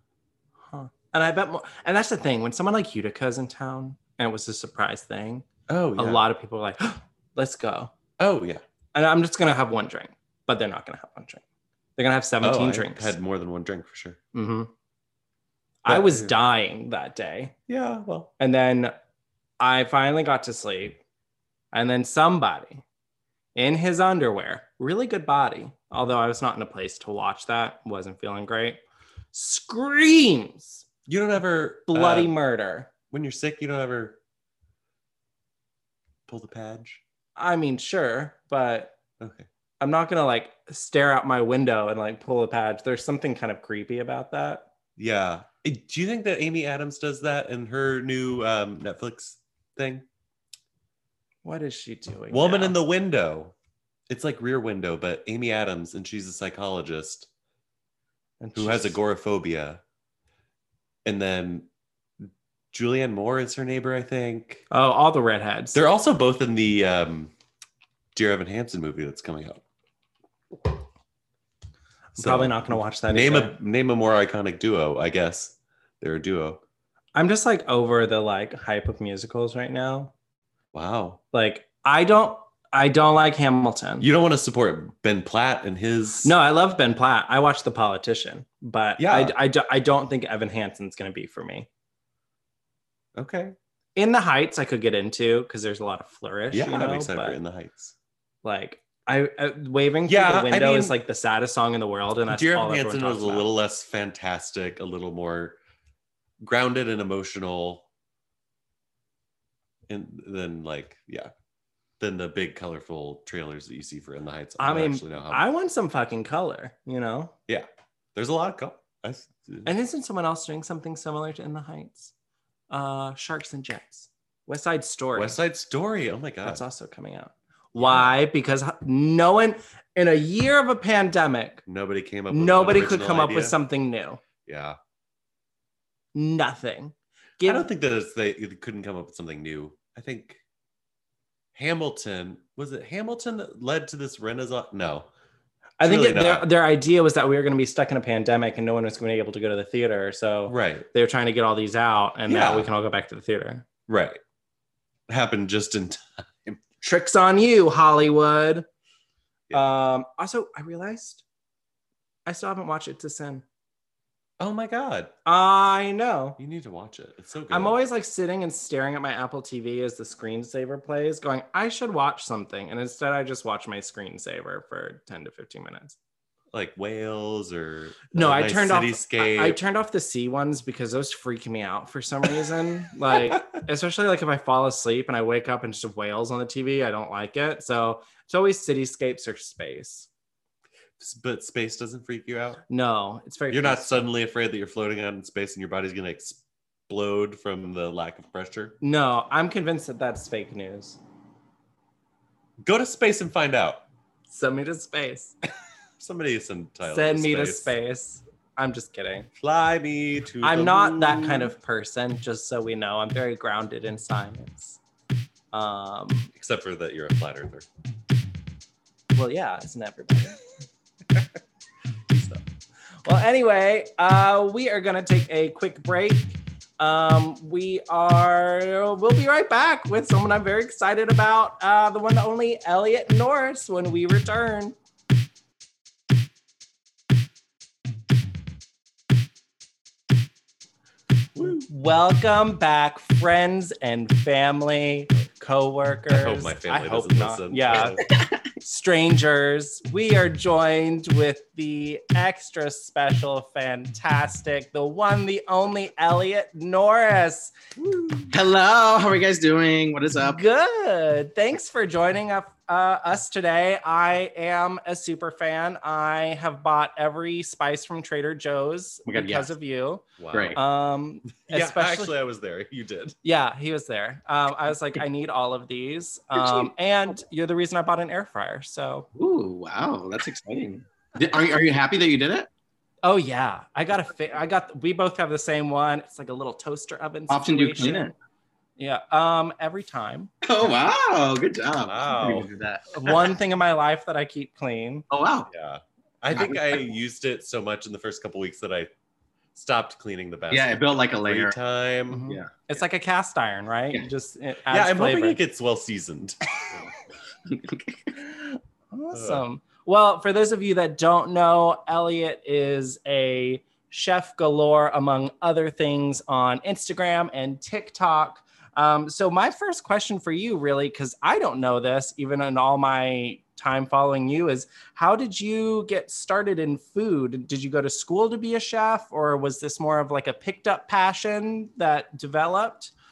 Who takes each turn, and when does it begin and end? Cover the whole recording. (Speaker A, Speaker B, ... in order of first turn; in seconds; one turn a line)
Speaker A: 0.7-5.5
Speaker B: 5.7-6.2
Speaker A: 6.0-7.9
Speaker B: 8.2-8.6
Speaker A: 8.9-11.4
Speaker A: 12.0-13.2
Speaker B: 12.4-14.2
Speaker A: 14.3-14.7
Speaker A: 15.8-17.5
Speaker B: 15.9-16.3
Speaker B: 17.7-18.3
Speaker A: 18.4-18.9
Speaker A: 19.6-21.0
Speaker A: 21.7-22.8
Speaker A: 23.5-28.8
Speaker A: 29.3-30.8
Speaker B: 31.1-32.3
Speaker A: 31.9-32.9
Speaker B: 33.1-34.2
Speaker B: 36.3-37.0
Speaker A: 37.4-39.0
Speaker B: 39.2-39.5
Speaker A: 39.8-44.6
Speaker B: 45.0-50.0
Speaker A: 51.4-52.8
Speaker B: 52.3-53.5
Speaker B: 54.1-57.3
Speaker A: 58.4-59.0
Speaker B: 58.5-59.8
Speaker B: 61.0-61.7
Speaker B: 62.2-64.6
Speaker A: 64.7-65.8
Speaker B: 65.7-67.3
Speaker B: 68.1-69.6
Speaker A: 72.2-73.5
Speaker B: 72.2-76.6
Speaker A: 77.1-80.1
Speaker B: 80.7-81.2
Speaker A: 81.3-84.0
Speaker B: 84.0-86.3
Speaker A: 86.2-91.7
Speaker B: 89.0-89.3
Speaker B: 93.2-93.5
Speaker A: 94.0-97.4
Speaker B: 96.5-97.9
Speaker A: 98.4-103.5
Speaker B: 100.1-101.0
Speaker B: 102.3-105.6
Speaker B: 106.4-107.8
Speaker B: 109.9-111.3
Speaker B: 112.0-115.4
Speaker A: 114.6-117.3
Speaker B: 117.5-119.7
Speaker A: 119.6-122.1
Speaker A: 122.7-125.3
Speaker B: 125.1-126.6
Speaker A: 126.4-131.6
Speaker B: 127.7-128.1
Speaker B: 131.7-133.6
Speaker A: 132.3-134.2
Speaker B: 134.4-134.8
Speaker A: 136.1-137.7
Speaker B: 137.4-140.4
Speaker B: 141.5-145.1
Speaker A: 145.8-153.6
Speaker B: 145.8-146.4
Speaker B: 150.5-150.9
Speaker B: 152.3-152.7
Speaker B: 153.9-154.2
Speaker B: 155.1-156.6
Speaker A: 156.8-158.7
Speaker A: 159.5-161.2
Speaker A: 162.2-163.4
Speaker B: 164.4-165.1
Speaker A: 165.2-166.4
Speaker B: 166.4-167.8
Speaker A: 167.5-175.9
Speaker B: 176.5-179.6
Speaker A: 178.1-190.1
Speaker B: 191.0-192.6
Speaker A: 192.7-194.0
Speaker B: 193.5-198.8
Speaker A: 198.8-201.0
Speaker B: 202.6-203.8
Speaker A: 204.3-205.3
Speaker B: 206.0-207.7
Speaker A: 206.8-209.3
Speaker B: 209.4-211.5
Speaker A: 210.4-214.8
Speaker A: 215.5-216.3
Speaker B: 216.3-217.7
Speaker A: 219.1-220.4
Speaker B: 222.1-222.4
Speaker A: 223.0-234.7
Speaker B: 241.3-241.6
Speaker A: 241.4-248.1
Speaker B: 246.1-248.1
Speaker A: 248.6-258.3
Speaker C: 258.3-260.4
Speaker A: 260.2-272.1
Speaker C: 269.1-269.5
Speaker B: 270.2-270.6
Speaker C: 270.3-270.6
Speaker B: 271.5-273.1
Speaker A: 273.2-279.1
Speaker C: 279.1-282.5
Speaker A: 283.0-288.1
Speaker C: 287.3-288.1
Speaker A: 288.8-290.3
Speaker C: 290.4-293.3
Speaker B: 291.8-292.5
Speaker A: 292.9-295.1
Speaker C: 295.1-295.5
Speaker B: 295.5-298.9
Speaker C: 296.3-296.8
Speaker B: 299.5-302.3
Speaker C: 300.5-301.6
Speaker A: 302.1-305.4
Speaker B: 304.7-306.4
Speaker C: 307.5-308.1
Speaker A: 308.9-332.9
Speaker B: 309.1-309.4